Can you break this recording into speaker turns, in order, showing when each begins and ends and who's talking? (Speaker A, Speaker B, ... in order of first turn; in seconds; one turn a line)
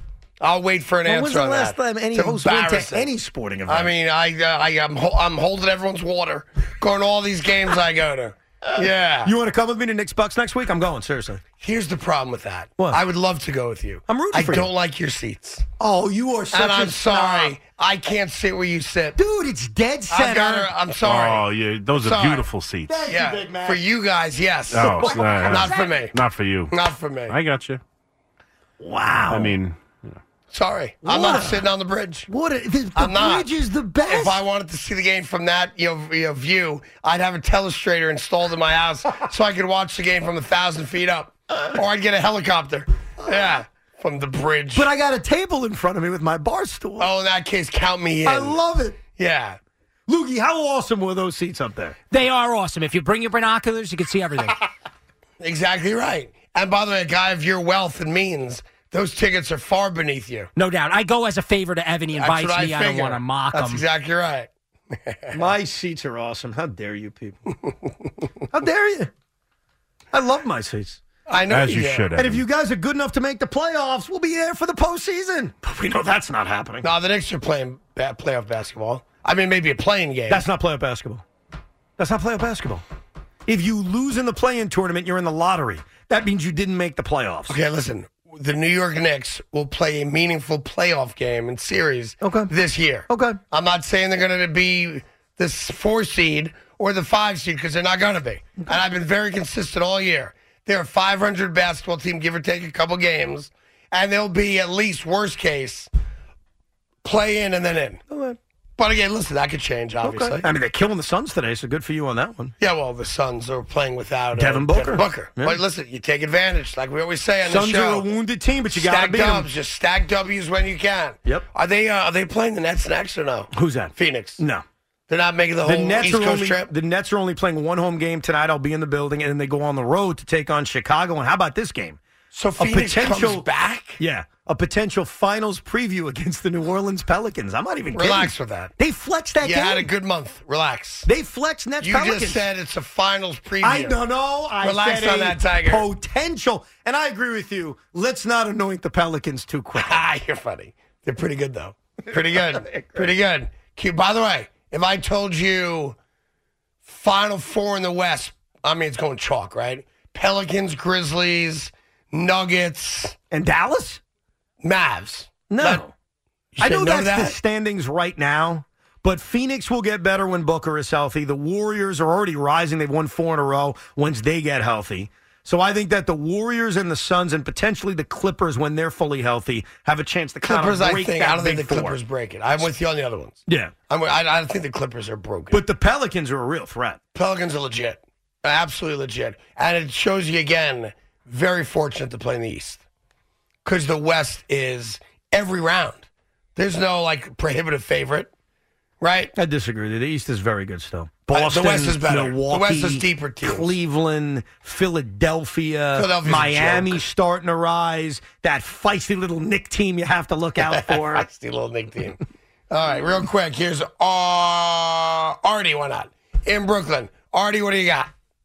Speaker A: 0.4-3.1
Speaker B: 1.1-3.9
Speaker A: 3.7-9.3
Speaker B: 9.2-11.4
Speaker A: 11.6-15.7
Speaker B: 14.1-14.7
Speaker B: 15.8-17.6
Speaker A: 16.5-19.2
Speaker B: 19.2-20.7
Speaker A: 20.1-22.5
Speaker C: 21.0-23.0
Speaker B: 22.9-23.8
Speaker A: 23.1-26.1
Speaker C: 24.7-26.8
Speaker B: 24.8-25.7
Speaker A: 26.7-27.4
Speaker C: 27.3-27.8
Speaker B: 28.8-29.6
Speaker C: 29.3-30.2
Speaker A: 30.5-32.3
Speaker B: 31.0-31.7
Speaker B: 32.3-34.4
Speaker A: 33.0-33.5
Speaker A: 34.0-44.9
Speaker B: 44.8-47.1
Speaker A: 47.0-49.6
Speaker B: 48.2-49.0
Speaker B: 50.1-52.0
Speaker D: 52.1-54.5
Speaker A: 55.4-60.5
Speaker D: 60.6-63.8
Speaker A: 62.2-65.3
Speaker B: 65.3-67.4
Speaker B: 68.5-69.1
Speaker B: 70.1-71.0
Speaker A: 71.3-72.2
Speaker C: 71.5-72.4
Speaker B: 72.2-76.9
Speaker A: 76.8-80.5
Speaker B: 80.3-81.2
Speaker B: 82.0-82.8
Speaker B: 83.5-87.6
Speaker A: 87.5-105.9
Speaker B: 92.2-92.5
Speaker B: 93.1-93.4
Speaker A: 107.0-108.0
Speaker B: 108.1-108.4
Speaker A: 108.8-110.5
Speaker B: 110.0-112.5
Speaker A: 112.6-118.1
Speaker B: 114.3-115.6
Speaker B: 117.5-119.5
Speaker A: 118.7-124.4
Speaker B: 123.5-124.6
Speaker A: 125.1-126.7
Speaker B: 125.6-132.0
Speaker A: 132.3-134.0
Speaker B: 132.6-133.5
Speaker B: 134.0-139.9
Speaker A: 137.9-138.7
Speaker A: 139.4-141.1
Speaker B: 141.1-142.4
Speaker A: 141.8-144.0
Speaker B: 143.6-150.0
Speaker A: 144.6-145.9
Speaker A: 149.7-156.0
Speaker B: 152.3-153.1
Speaker A: 156.8-163.2
Speaker B: 163.3-164.0
Speaker A: 164.6-165.8
Speaker B: 165.5-165.9
Speaker A: 166.6-167.4
Speaker B: 166.6-182.0
Speaker A: 180.4-185.6
Speaker B: 183.5-183.7
Speaker B: 185.5-187.0
Speaker A: 187.2-192.8
Speaker A: 193.7-198.3
Speaker A: 199.0-199.3
Speaker B: 199.4-211.3
Speaker A: 201.3-203.8
Speaker A: 205.9-207.0
Speaker A: 210.6-218.1